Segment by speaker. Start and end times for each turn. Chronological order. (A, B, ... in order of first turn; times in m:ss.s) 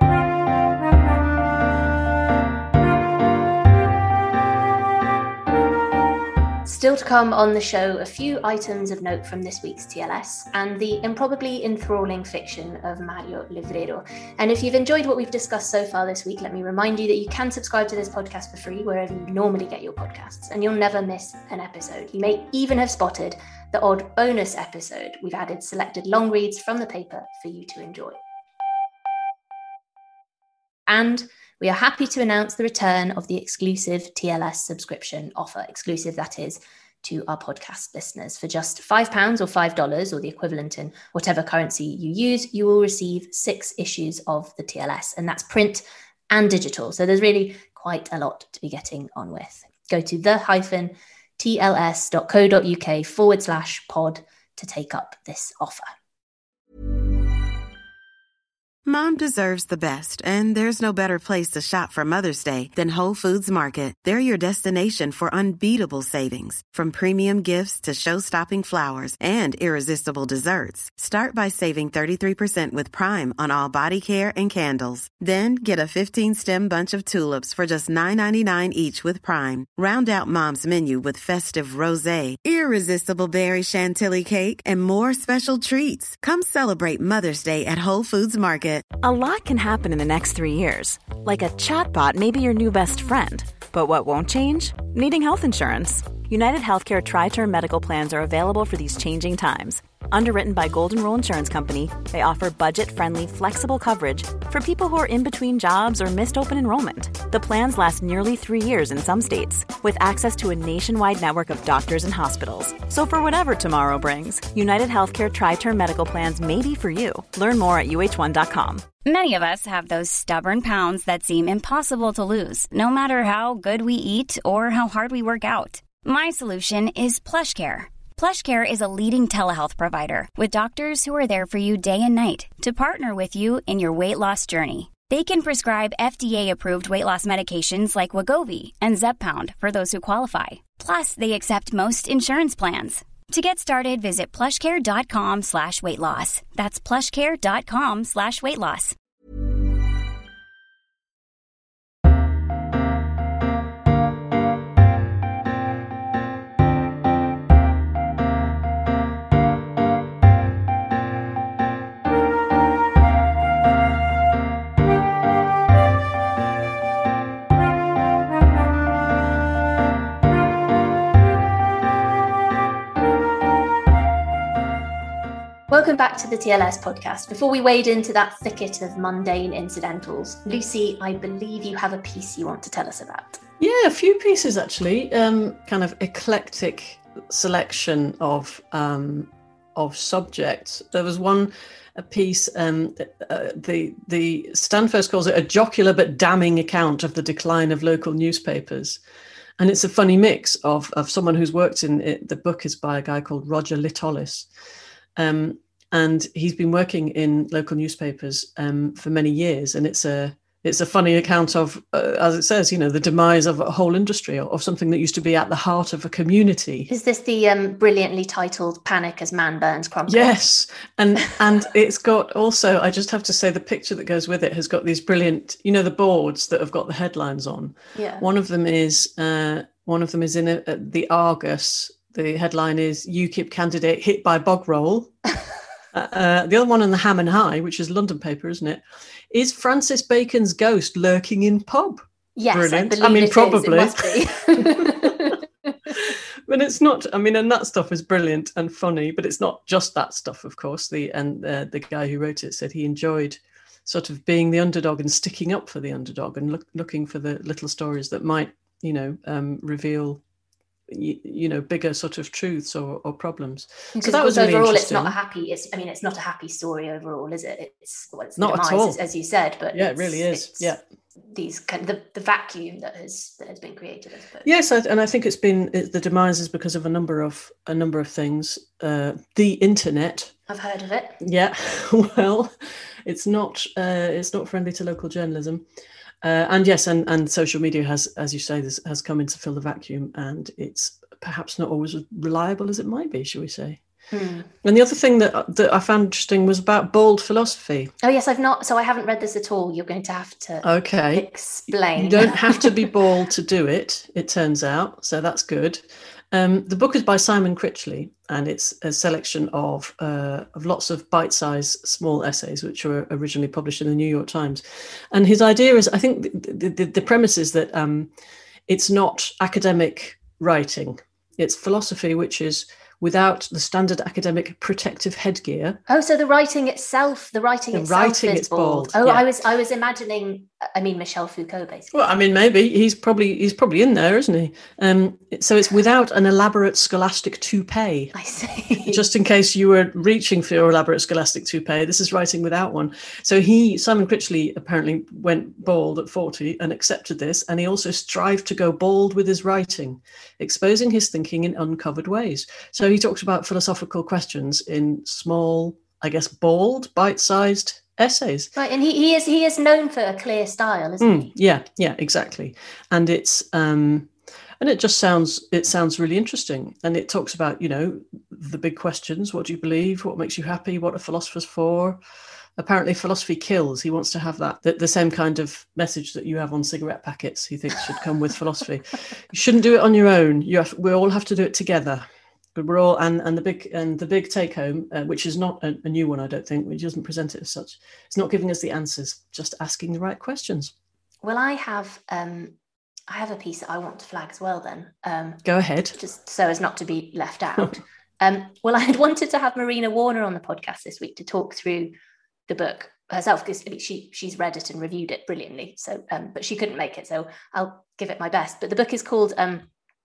0:06.6-0:28.2 A
0:30.9-0:55.9 A
0:58.8-1:28.9 B
1:29.0-1:58.9 C
1:59.0-2:28.9 D
2:55.7-3:03.4 A
3:03.6-3:19.0 E
3:19.6-3:24.5 E
3:25.2-3:36.9 E
3:36.9-3:40.3 A
3:40.1-3:55.3 E
3:47.9-3:48.2 A
3:55.9-4:05.1 E
4:02.4-4:05.7 A
4:05.9-4:20.2 E
4:20.9-4:25.1 E
4:24.0-4:30.7 A
4:28.4-4:29.0 E
4:29.7-4:30.8 E
4:31.3-4:34.5 A
4:34.4-4:40.3 E
4:40.5-4:41.2 A
4:41.2-4:42.5 E
4:43.0-4:45.6 E
4:46.2-4:53.8 E
4:54.1-4:54.5 A
4:54.6-4:57.9 E
4:58.0-5:02.7 A
5:00.6-5:01.3 E
5:01.9-5:18.1 E
5:18.7-5:25.8 E
5:25.9-5:31.9 A
5:27.7-5:29.2 E
5:31.9-5:38.1 E
5:38.1-5:39.0 A
5:38.9-5:58.5 E
5:58.6-6:01.3 A
6:01.0-6:12.0 E
6:12.6-6:30.7 E
6:31.2-6:32.5 A
6:33.1-6:35.4 A
6:35.4-6:36.0 E
6:35.9-6:41.9 A
6:42.5-6:49.7 A